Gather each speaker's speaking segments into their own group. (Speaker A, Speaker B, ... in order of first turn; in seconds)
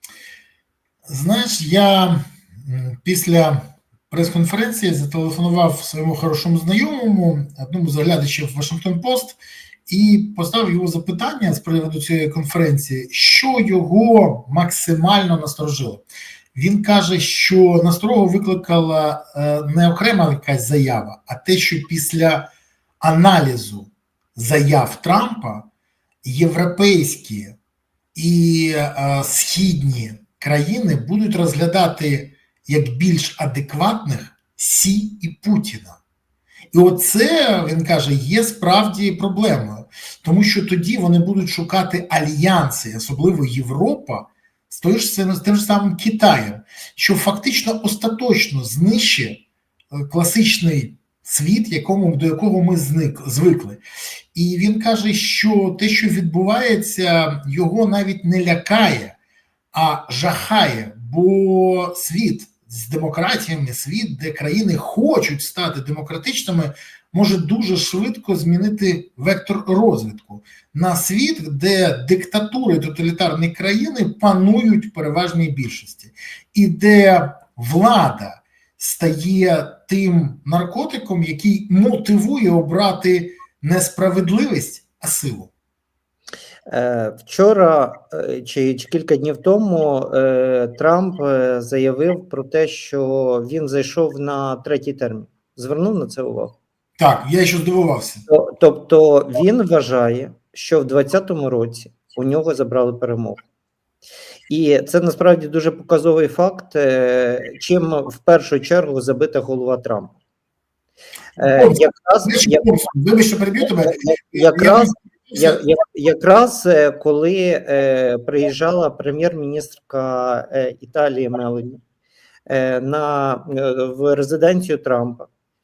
Speaker A: 1.1-22.5, 23.0-25.7, 26.2-27.6, 28.1-36.0, 36.7-53.8, 54.3-59.2, 59.7-85.5, 97.0-98.3, 111.4-115.6
Speaker B: 86.7-96.5, 98.3-103.4, 104.5-110.2, 111.4-112.7, 113.8-121.8, 122.5-125.3